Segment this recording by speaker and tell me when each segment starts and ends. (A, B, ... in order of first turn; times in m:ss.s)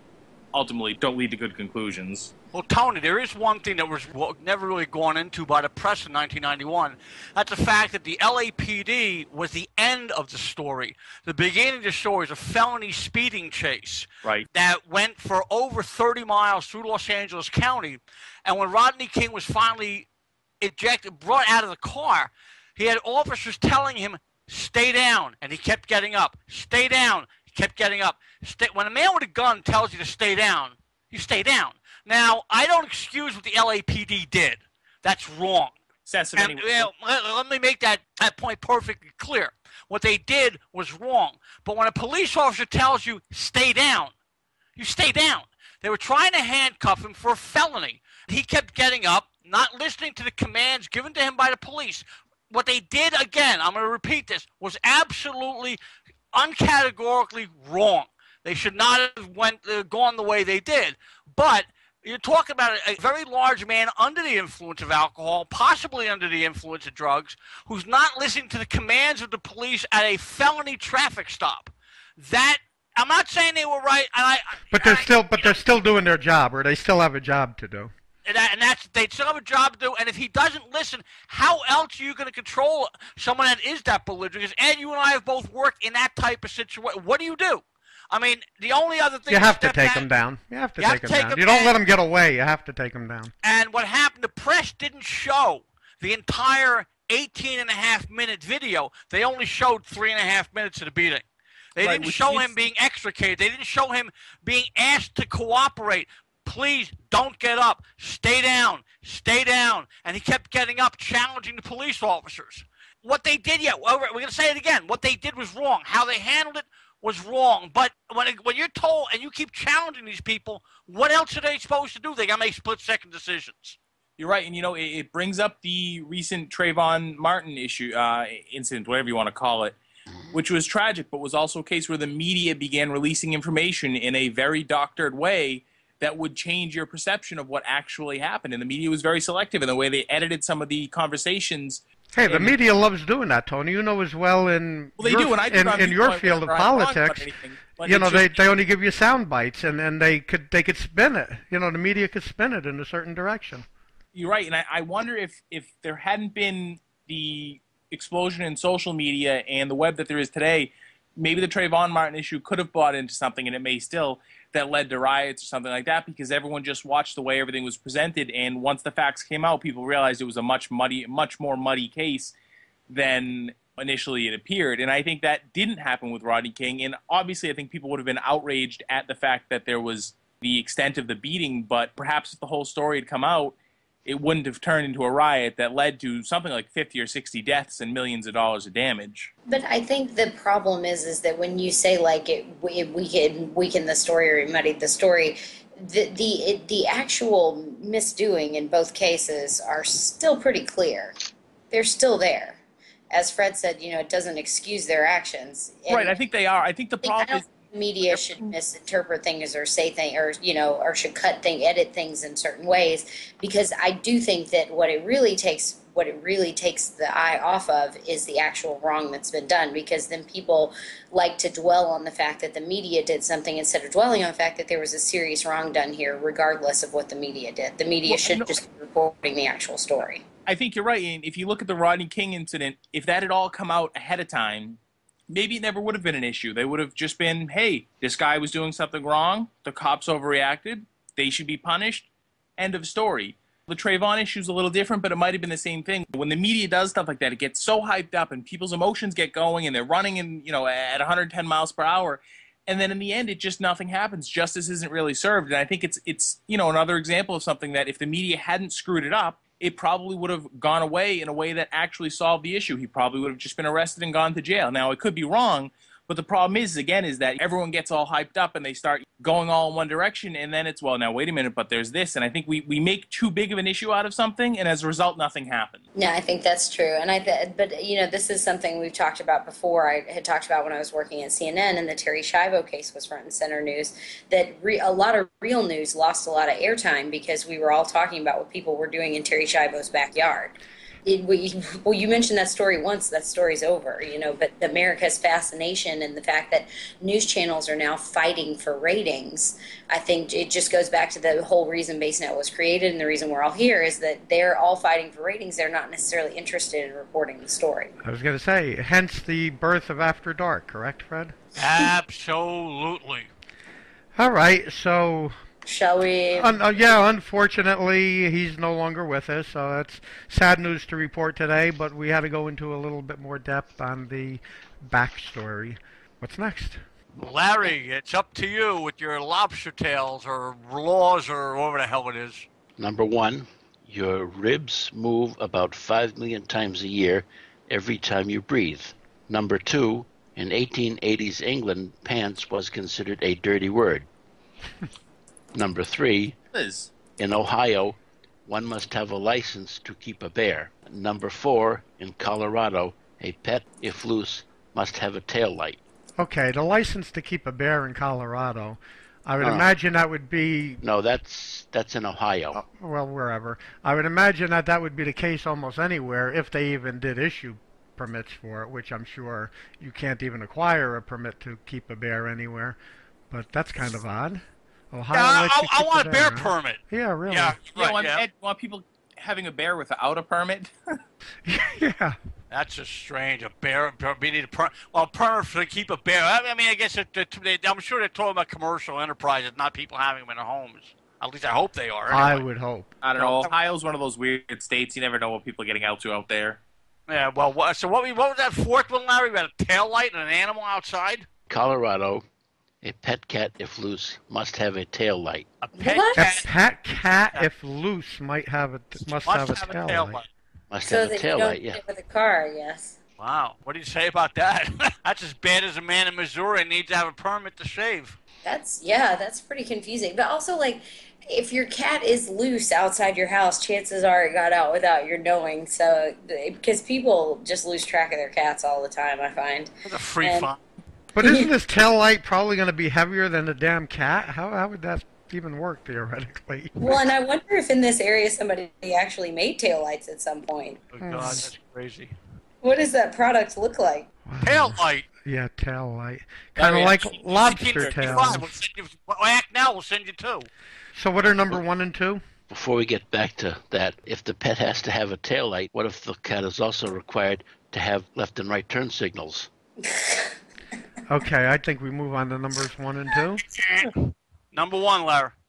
0:00.5-0:02.3 A
0:02.5-0:20.1 B
0:20.6-0:35.7 B
0:36.0-0:36.9 A
0:36.4-0:44.1 B
0:44.8-0:55.8 B
0:56.3-1:15.6 B
1:14.7-1:17.9 C
1:18.2-1:30.0 B
1:29.3-1:33.3 C
1:30.8-1:31.7 B
1:33.4-1:41.2 B
1:41.8-2:03.8 B
1:41.8-1:42.5 A
2:04.2-2:09.8 A
2:10.3-2:22.5 A
2:22.1-2:27.2 C
2:25.0-2:28.4 A
2:27.8-2:33.6 C
2:34.1-2:52.3 A
2:52.9-3:09.3 A
3:09.5-3:21.2 D
3:21.7-3:22.6 D
3:23.1-3:26.1 D
3:25.9-3:27.5 A
3:27.0-3:50.2 D
3:28.1-3:28.5 A
3:48.1-3:48.5 A
3:50.4-3:54.8 A
3:55.3-4:35.8 A
4:36.0-5:07.9 D
5:08.0-5:11.4 C
5:11.5-5:13.3 B
5:14.2-5:15.3 C
5:15.6-5:17.0 D
5:16.3-5:26.8 C
5:27.2-5:32.5 B
5:32.8-5:44.1 E
5:45.5-5:46.4 E
5:46.5-5:46.9 A
5:47.2-5:55.8 E
5:56.2-6:00.8 C
5:59.4-5:59.7 E
6:00.8-6:02.6 E
6:02.5-6:12.8 C
6:13.3-6:17.6 C
6:15.1-6:18.2 B
6:17.7-6:20.7 A
6:21.4-6:22.2 C
6:22.5-6:32.4 B
6:32.1-6:32.9 C
6:33.0-6:36.6 A
6:33.2-6:33.5 B
6:37.1-6:41.3 B
6:41.5-6:42.2 E
6:42.8-6:45.5 E
6:45.6-6:46.5 B
6:45.8-6:46.4 D
6:46.2-6:50.2 C
6:49.1-6:50.3 B
6:50.7-6:51.8 E
6:50.8-6:53.0 D
6:53.2-6:58.2 B
6:58.4-7:09.7 D
7:09.8-7:10.6 B
7:10.2-7:10.5 D
7:11.1-7:17.0 C
7:11.2-7:11.5 D
7:16.8-7:20.8 D
7:20.9-7:22.1 B
7:21.0-7:21.4 C
7:22.6-7:24.1 D
7:24.2-7:28.5 C
7:24.4-7:25.0 B
7:26.6-7:28.2 A
7:27.4-7:30.5 B
7:30.9-7:32.2 C
7:32.5-7:39.5 E
7:39.8-7:40.3 D
7:41.1-7:43.4 C
7:43.5-7:44.0 B
7:44.5-7:45.3 B